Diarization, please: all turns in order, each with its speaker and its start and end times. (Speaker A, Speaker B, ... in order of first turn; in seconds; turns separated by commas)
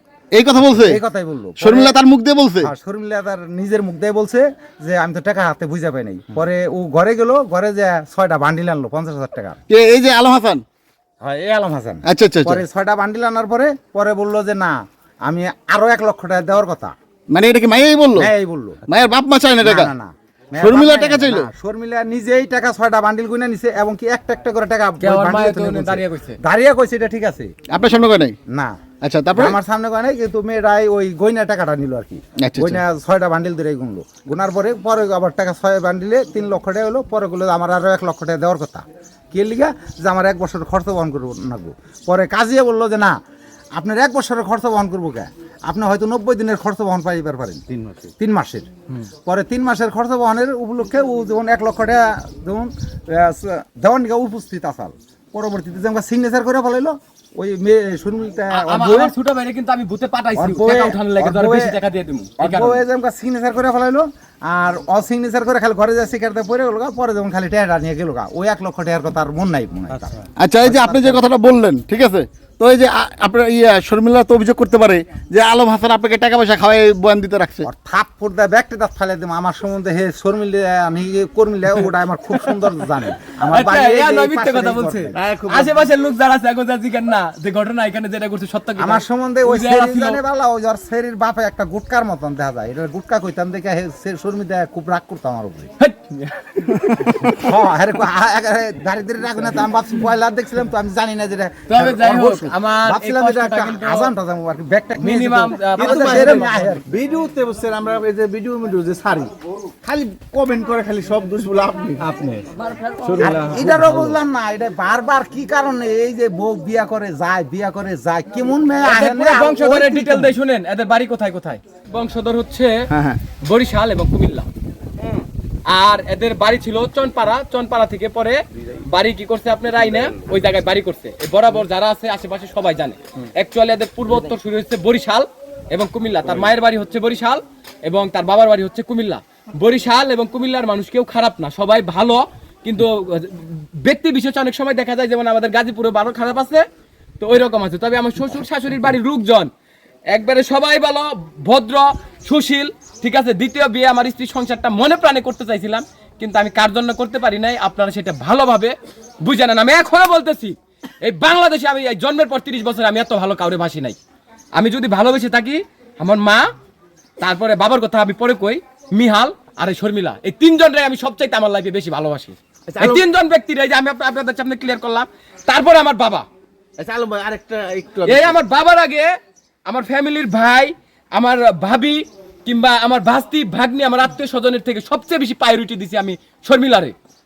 Speaker A: 0.3-1.0, Speaker B: 0.5-2.0, Speaker A: 1.6-2.7, Speaker B: 2.6-9.6, Speaker A: 9.7-10.6, Speaker B: 11.2-16.9, Speaker A: 12.0-12.6, Speaker A: 17.3-18.3, Speaker B: 18.2-18.8, Speaker A: 18.9-19.9, Speaker B: 19.6-27.5, Speaker A: 20.6-21.5, Speaker C: 25.0-26.4, Speaker A: 27.7-28.4, Speaker B: 28.5-28.8, Speaker A: 29.0-29.6, Speaker B: 29.3-43.2, Speaker A: 32.4-32.8, Speaker B: 43.8-47.6, Speaker D: 47.7-48.1, Speaker B: 48.2-48.7, Speaker B: 49.3-59.1, Speaker C: 58.5-62.8, Speaker B: 60.4-61.8, Speaker B: 62.4-71.3, Speaker A: 70.4-77.7, Speaker B: 77.6-85.2, Speaker C: 83.4-90.2, Speaker D: 85.2-85.8, Speaker B: 88.8-95.7, Speaker C: 95.8-97.4, Speaker B: 97.3-106.9, Speaker C: 101.7-104.1, Speaker C: 105.0-106.5, Speaker D: 105.8-114.2, Speaker B: 113.2-120.3, Speaker C: 118.8-122.9, Speaker D: 122.9-123.2, Speaker C: 123.4-124.5, Speaker C: 125.7-146.7, Speaker C: 147.2-149.5, Speaker C: 150.1-164.0, Speaker C: 164.6-166.5, Speaker C: 167.2-176.3, Speaker D: 172.7-173.0, Speaker D: 176.8-178.4, Speaker C: 178.1-179.1, Speaker C: 179.7-186.9